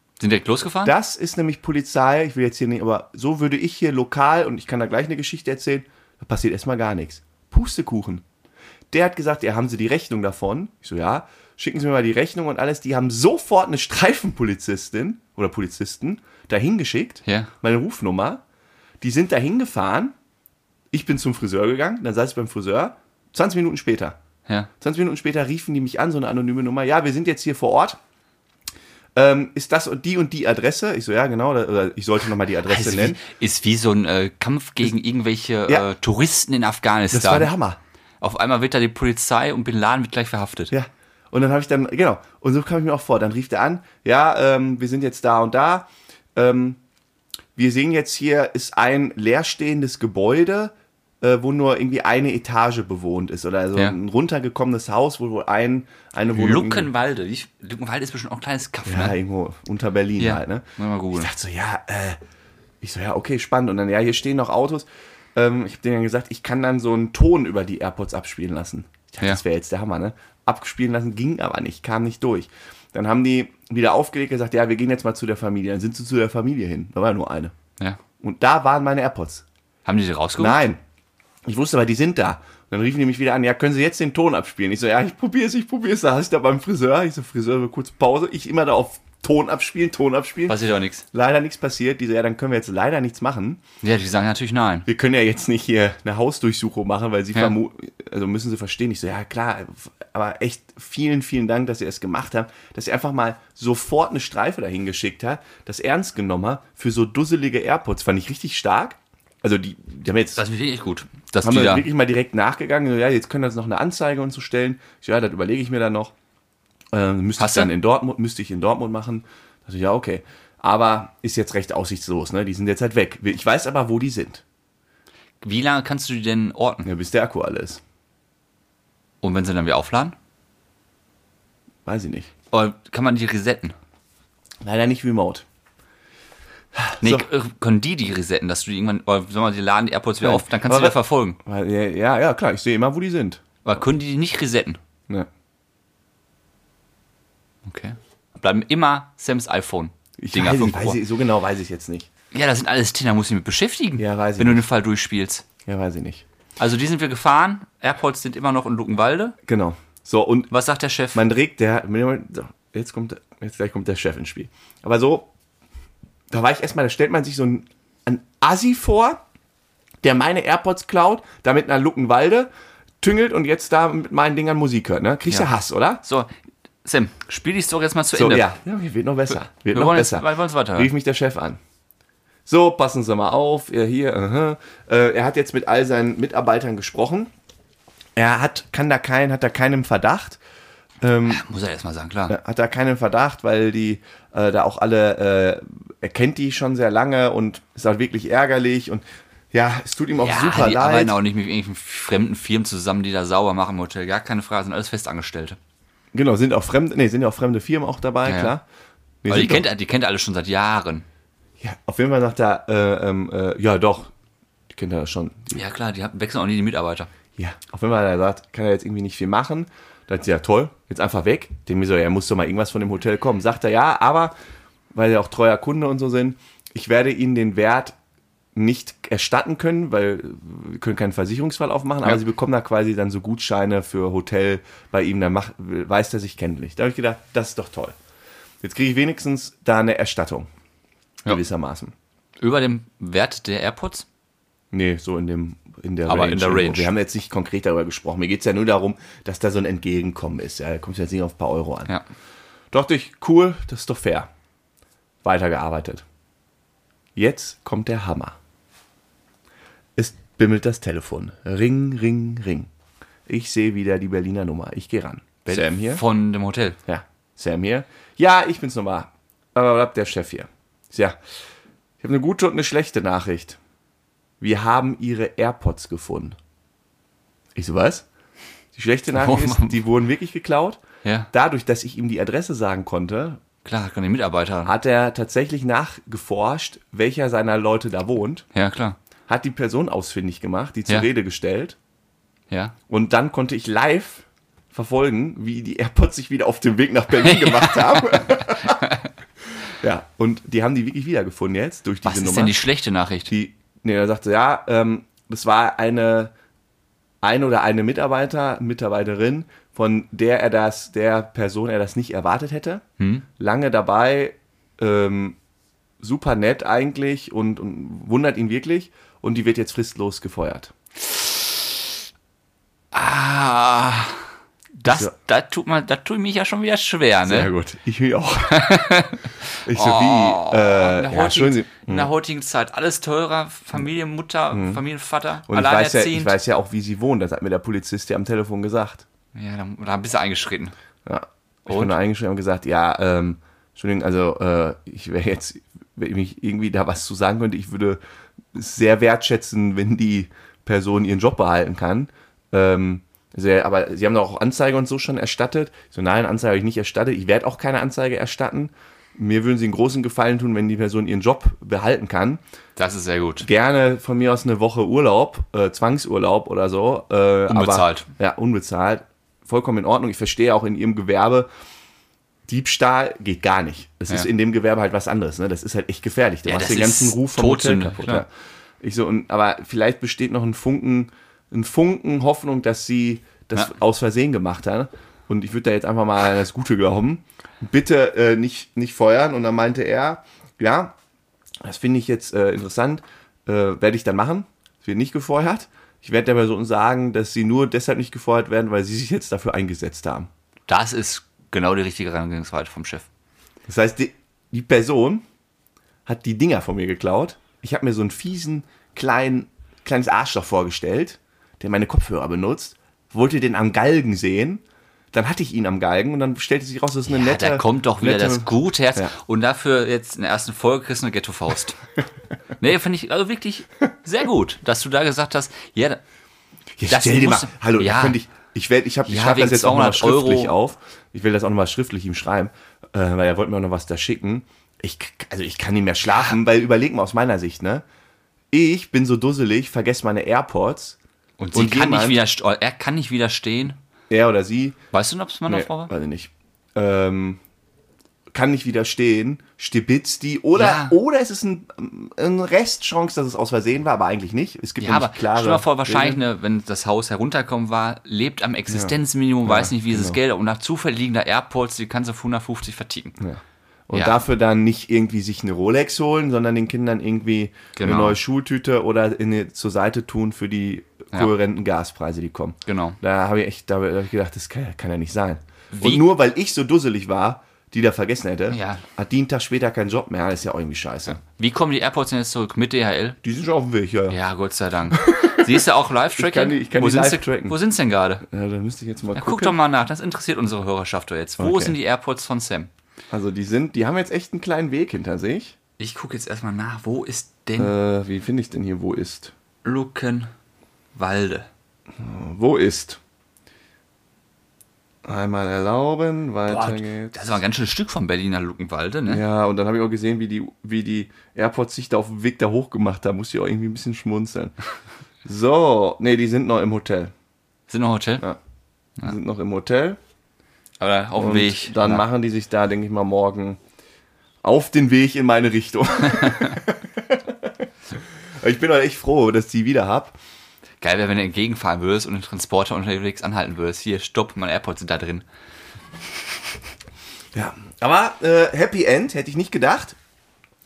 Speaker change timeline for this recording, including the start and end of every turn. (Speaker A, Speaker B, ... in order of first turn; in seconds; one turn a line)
Speaker A: 0.2-0.9
Speaker B: 0.8-8.2
Speaker B: 8.9-18.4
Speaker A: 17.2-17.5
Speaker B: 19.0-20.1
Speaker B: 20.9-24.2
Speaker B: 24.8-28.0
Speaker B: 29.1-33.2
Speaker A: 32.6-37.5
Speaker B: 37.1-37.8
Speaker A: 38.2-40.7
Speaker B: 40.7-46.8
Speaker B: 47.5-56.9
Speaker A: 56.3-59.2
Speaker B: 58.8-62.2
Speaker A: 60.2-61.3
Speaker B: 62.8-77.5
Speaker B: 78.2-79.4
Speaker A: 79.8-80.6
Speaker B: 80.4-80.8
Speaker B: 81.5-90.6
Speaker A: 90.5-91.0
Speaker B: 91.1-93.6
Speaker A: 93.8-94.9
Speaker B: 94.9-110.4
Speaker A: 110.3-111.9
Speaker B: 111.4-116.1
Speaker B: 116.9-124.4
Speaker A: 117.4-117.7
Speaker A: 125.4-126.9
Speaker B: 126.8-127.8
Speaker A: 129.2-130.2
Speaker B: 131.8-132.3
Speaker A: 132.5-133.8
Speaker B: 134.6-135.4
Speaker B: 136.7-137.2
Speaker A: 137.0-141.4
Speaker B: 140.2-143.4
Speaker A: 143.6-144.8
Speaker A: 147.7-151.0
Speaker B: 150.2-152.1
Speaker A: 152.3-155.4
Speaker B: 154.0-154.6
Speaker B: 155.7-156.2
Speaker A: 156.6-159.3
Speaker B: 159.4-160.5
Speaker A: 160.5-161.2
Speaker B: 161.1-165.3
Speaker B: 166.3-169.2
Speaker B: 170.0-172.5
Speaker B: 173.0-176.0
Speaker A: 176.0-176.3
Speaker A: 176.8-178.5
Speaker B: 178.1-181.6
Speaker A: 179.7-180.9
Speaker B: 182.5-187.3
Speaker B: 188.2-190.4
Speaker B: 191.0-191.4
Speaker A: 191.2-192.3
Speaker B: 192.3-201.2
Speaker A: 200.2-205.6
Speaker B: 206.1-208.6
Speaker A: 208.2-208.5
Speaker B: 209.2-209.6
Speaker A: 209.3-211.1
Speaker B: 211.6-214.1
Speaker B: 214.7-215.6
Speaker A: 215.5-217.1
Speaker B: 217.4-224.3
Speaker B: 224.9-227.9
Speaker B: 228.5-237.9
Speaker B: 238.6-240.5
Speaker B: 241.2-241.9
Speaker A: 242.4-244.1
Speaker B: 244.7-251.9
Speaker A: 246.1-246.9
Speaker B: 252.7-254.3
Speaker B: 255.2-256.0
Speaker B: 257.1-258.4
Speaker B: 259.9-262.7
Speaker B: 263.3-266.0
Speaker A: 265.5-266.8
Speaker B: 266.9-271.2
Speaker B: 272.0-273.6
Speaker B: 274.4-276.4
Speaker B: 277.6-278.1
Speaker B: 278.7-280.8
Speaker A: 279.1-279.8
Speaker A: 281.0-281.3
Speaker B: 281.3-283.4
Speaker A: 283.6-284.7
Speaker B: 284.6-288.4
Speaker A: 288.5-289.0
Speaker B: 289.3-291.8
Speaker B: 292.9-298.8
Speaker A: 297.2-299.1
Speaker B: 299.8-302.6
Speaker A: 302.0-303.3
Speaker B: 303.3-306.3
Speaker B: 307.2-312.8
Speaker A: 313.0-313.2
Speaker B: 313.4-315.4
Speaker B: 316.0-320.7
Speaker A: 321.3-321.6
Speaker A: 322.9-324.2
Speaker A: 324.8-327.5
Speaker B: 327.2-328.9
Speaker A: 328.5-336.4
Speaker B: 329.6-332.1
Speaker B: 334.5-334.8
Speaker B: 335.5-339.0
Speaker A: 339.3-340.7
Speaker B: 341.1-348.0
Speaker A: 341.7-341.9
Speaker B: 348.5-362.4
Speaker A: 362.8-363.5
Speaker B: 363.4-371.5
Speaker A: 367.5-368.1
Speaker B: 372.5-378.3
Speaker A: 376.4-378.2
Speaker B: 378.8-390.9
Speaker B: 391.6-400.3
Speaker A: 400.7-403.1
Speaker B: 403.7-405.2
Speaker B: 406.1-419.1
Speaker A: 417.1-421.8
Speaker A: 422.6-426.0
Speaker B: 426.8-437.8
Speaker A: 426.9-428.2
Speaker A: 429.1-430.6
Speaker B: 438.5-441.0
Speaker A: 441.4-443.8
Speaker B: 441.5-442.2
Speaker B: 444.1-444.8
Speaker A: 444.9-445.9
Speaker B: 445.5-447.4
Speaker B: 448.3-456.2
Speaker A: 450.5-450.9
Speaker A: 454.8-463.2
Speaker B: 458.7-460.2
Speaker B: 463.2-481.2
Speaker A: 467.8-468.2
Speaker A: 472.6-473.0
Speaker A: 475.7-476.1
Speaker A: 478.5-478.8
Speaker A: 481.2-483.2
Speaker B: 483.2-484.2
Speaker A: 484.1-488.2
Speaker B: 484.9-485.6
Speaker B: 486.1-487.6
Speaker B: 488.2-489.6
Speaker A: 489.1-492.7
Speaker B: 491.4-491.7
Speaker B: 493.1-495.6
Speaker A: 495.8-497.7
Speaker B: 497.6-499.3
Speaker A: 499.6-500.3
Speaker A: 500.9-501.5
Speaker B: 502.0-503.0
Speaker B: 505.0-507.4
Speaker A: 506.5-509.2
Speaker B: 509.1-514.5
Speaker B: 515.2-517.1
Speaker A: 517.7-518.2
Speaker B: 519.0-520.0
Speaker A: 520.8-522.0
Speaker B: 521.2-523.6
Speaker B: 524.4-527.6
Speaker A: 526.1-526.6
Speaker B: 528.4-530.1
Speaker A: 530.8-535.2
Speaker B: 537.3-540.0